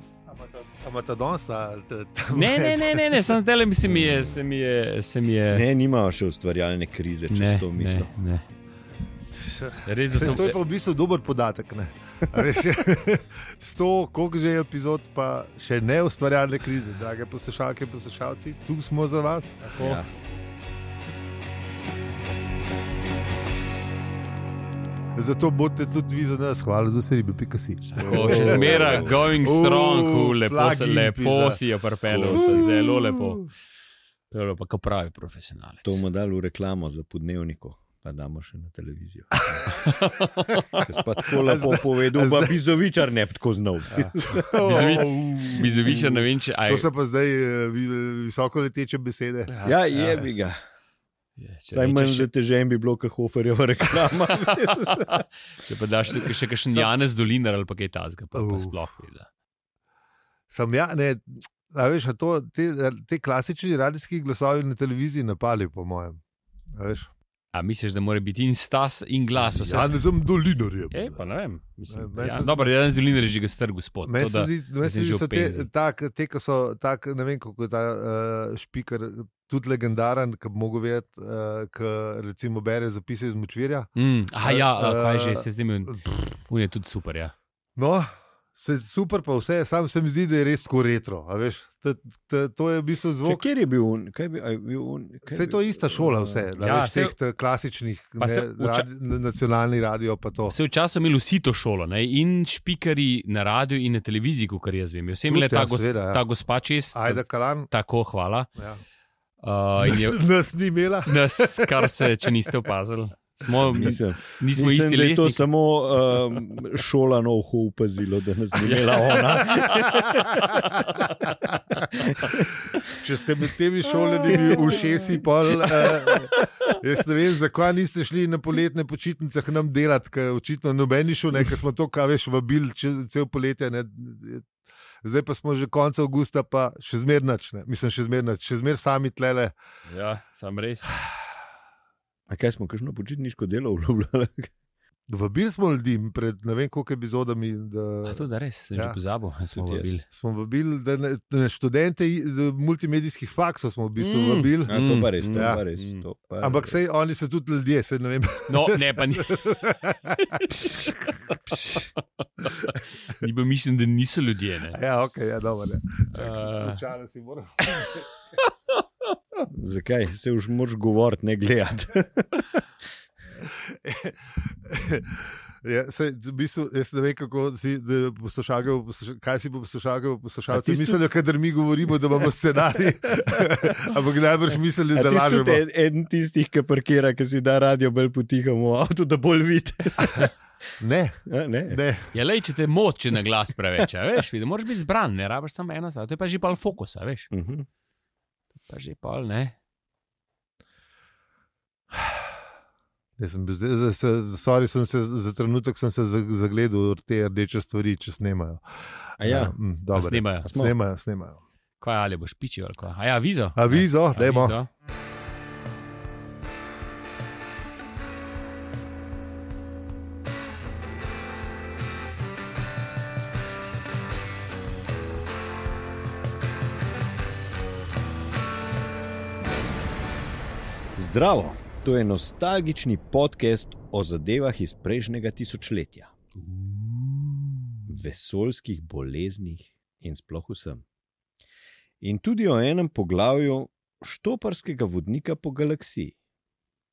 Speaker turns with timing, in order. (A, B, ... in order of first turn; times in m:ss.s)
0:00.3-0:03.2 A
0:02.3-0:05.6 B
0:03.9-0:04.2 C
0:05.5-0:08.1 C
0:07.3-0:08.4 B
0:09.3-0:19.8 A
0:09.8-0:10.6 B
0:19.7-0:20.0 B
0:19.8-0:20.1 C
0:25.2-0:31.6 A
0:27.9-0:33.4 B
0:28.0-0:29.2 C
0:32.1-0:32.6 C
0:32.3-0:33.4 A
0:34.3-0:36.0 B
0:35.8-0:39.8 C
0:39.4-0:39.9 A
0:39.8-0:40.9 B
0:40.8-0:45.0 C
0:41.2-0:42.6 A
0:43.9-0:49.5 A
0:44.6-0:46.9 B
0:49.5-0:50.3 B
0:49.6-0:50.6 C
0:51.4-0:52.3 B
0:51.7-0:55.2 C
0:54.3-0:59.3 B
0:58.3-0:58.9 A
1:00.5-1:06.2 A
1:06.8-1:07.1 A
1:07.5-1:10.0 B
1:09.4-1:11.2 A
1:10.9-1:15.7 B
1:11.9-1:12.7 A
1:14.0-1:23.9 A
1:24.0-1:27.3 B
1:24.4-1:26.1 A
1:27.8-1:33.4 A
1:33.2-1:36.4 C
1:35.3-1:40.5 A
1:36.6-1:37.1 B
1:38.2-1:38.9 B
1:40.5-1:48.5 B
1:45.3-1:46.2 A
1:46.9-1:47.7 A
1:49.4-1:50.2 B
1:49.8-1:52.1 A
1:51.1-1:55.4 B
1:53.6-2:00.0 C
1:58.6-2:01.4 B
1:59.6-2:00.3 A
2:02.1-2:02.4 C
2:02.9-2:14.5 A
2:04.3-2:04.9 C
2:06.1-2:06.4 B
2:15.0-2:19.5 A
2:19.9-2:20.9 B
2:22.3-2:24.5 C
2:25.1-2:29.0 A
2:28.0-2:30.0 B
2:29.6-2:29.8 C
2:30.0-2:34.8 A
2:34.0-2:36.0 B
2:34.6-2:36.8 C
2:35.3-2:35.6 A
2:36.4-2:41.8 A
2:38.5-2:39.6 B
2:40.4-2:40.7 B
2:42.4-2:44.8 B
2:44.7-2:48.1 A
2:46.1-2:46.8 B
2:49.5-2:52.5 C
2:53.5-3:05.6 A
3:00.5-3:01.0 C
3:03.1-3:03.9 C
3:04.9-3:10.3 C
3:10.8-3:12.1 A
3:11.3-3:11.8 C
3:12.1-3:17.3 B
3:17.3-3:17.6 C
3:18.7-3:19.6 B
3:23.2-3:31.4 A
3:29.2-3:29.6 C
3:29.9-3:30.6 B
3:30.5-3:30.7 C
3:31.8-3:34.7 B
3:33.6-3:34.6 A
3:51.0-3:56.1 C
3:56.4-3:57.8 B
3:57.9-4:00.8 C
4:02.0-4:06.1 C